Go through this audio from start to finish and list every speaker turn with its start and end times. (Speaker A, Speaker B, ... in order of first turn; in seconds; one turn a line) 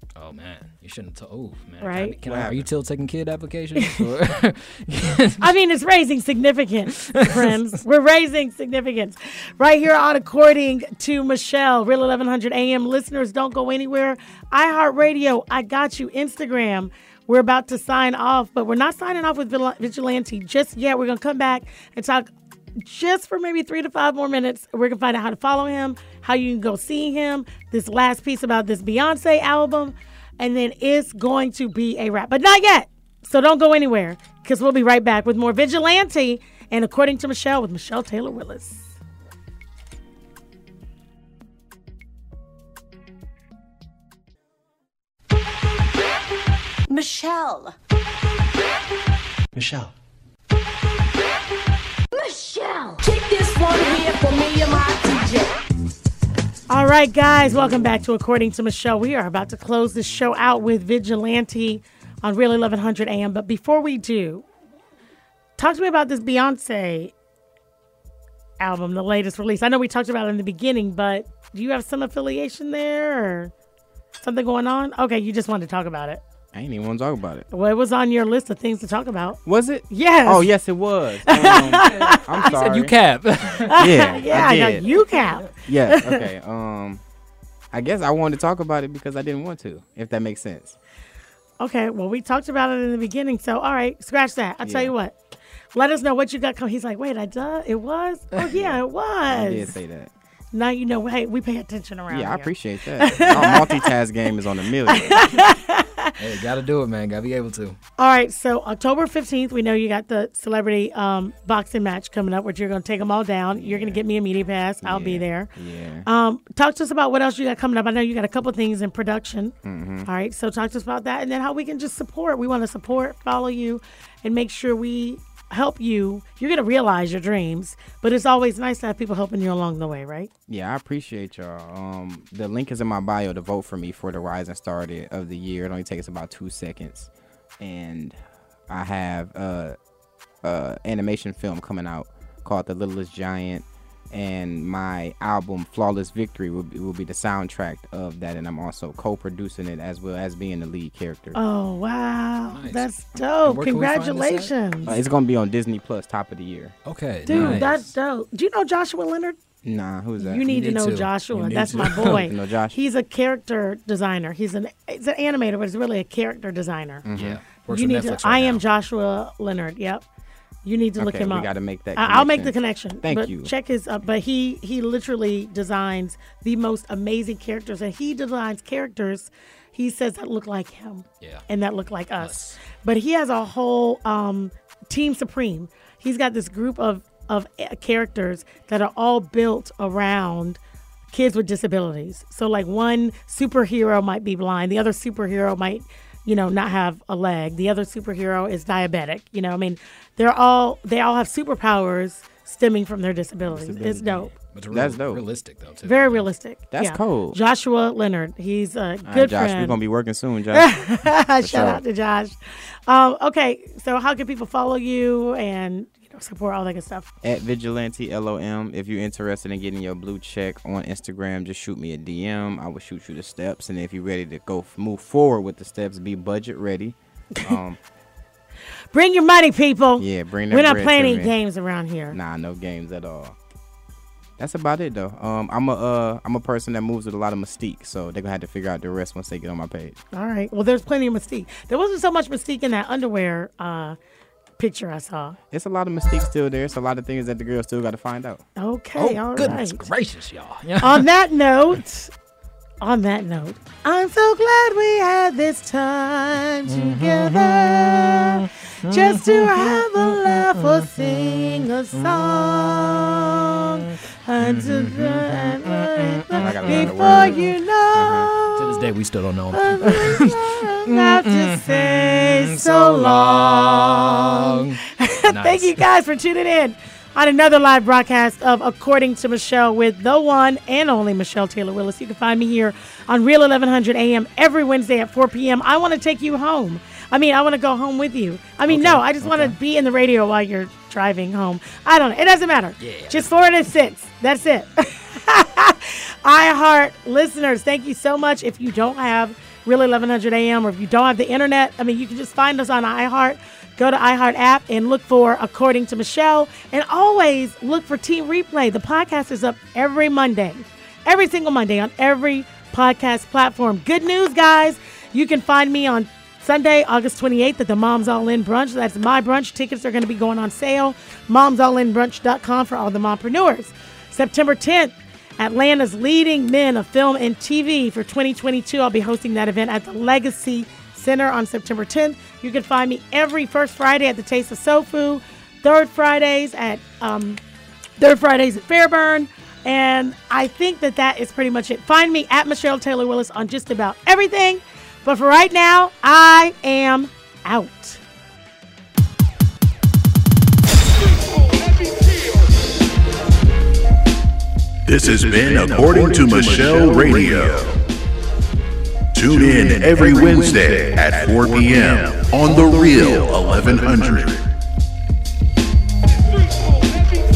Speaker A: 0.2-5.5
Speaker B: 1.8-2.2
Speaker C: 2.2-2.7
Speaker B: 3.8-4.1
Speaker B: 5.4-38.9
Speaker A: 7.0-7.6
Speaker D: 46.9-47.8
Speaker D: 52.1-55.5
Speaker B: 56.7-64.5
Speaker B: 65.6-67.1
Speaker B: 68.6-73.5
Speaker B: 74.2-76.2
Speaker C: 76.5-77.5
Speaker B: 77.5-80.5
Speaker C: 79.5-83.0
Speaker B: 81.2-82.5
Speaker A: 81.8-85.5
Speaker B: 83.7-86.3
Speaker C: 83.8-84.8
Speaker C: 85.6-87.0
Speaker C: 87.7-90.8
Speaker B: 91.6-95.2
Speaker C: 94.6-94.9
Speaker B: 95.7-99.7
Speaker C: 98.5-100.1
Speaker B: 100.5-103.9
Speaker C: 102.1-105.3
Speaker B: 104.9-106.2
Speaker A: 106.2-107.8
Speaker B: 108.0-115.5
Speaker C: 113.5-114.0
Speaker C: 114.8-116.1
Speaker B: 116.0-130.3
Speaker C: 119.6-120.1
Speaker C: 130.5-138.2
Speaker C: 138.7-139.8
Speaker C: 140.4-151.4
Speaker B: 151.3-154.9
Speaker A: 152.5-152.9
Speaker A: 153.4-154.9
Speaker C: 154.9-156.8
Speaker A: 156.8-157.9
Speaker B: 157.3-159.4
Speaker C: 157.3-157.7
Speaker C: 159.6-160.5
Speaker B: 160.2-167.1
Speaker A: 160.5-162.3
Speaker C: 161.8-162.8
Speaker C: 167.1-167.4
Speaker A: 167.2-168.6
Speaker B: 167.7-170.0
Speaker B: 170.7-190.6
Speaker C: 171.0-173.5
Speaker A: 182.2-182.6
Speaker B: 191.1-204.3
Speaker C: 203.4-205.2
Speaker A: 204.5-206.3
Speaker B: 205.9-209.8
Speaker C: 206.7-207.4
Speaker C: 209.1-210.8
Speaker B: 210.5-217.1
Speaker C: 211.4-211.8
Speaker C: 217.2-227.8
Speaker B: 228.9-232.2
Speaker C: 230.0-231.3
Speaker C: 232.1-233.4
Speaker C: 234.4-240.0
Speaker B: 240.1-244.0
Speaker B: 244.6-245.4
Speaker C: 245.5-248.4
Speaker B: 248.6-249.9
Speaker A: 249.0-251.1
Speaker B: 250.8-252.1
Speaker B: 252.8-268.9
Speaker A: 256.7-262.9
Speaker A: 264.4-267.4
Speaker C: 266.4-268.3
Speaker A: 268.6-275.8
Speaker B: 269.5-337.4
Speaker A: 288.7-289.6
Speaker A: 292.8-293.3
Speaker B: 338.0-348.0
Speaker E: 354.9-357.8
Speaker E: 359.1-364.5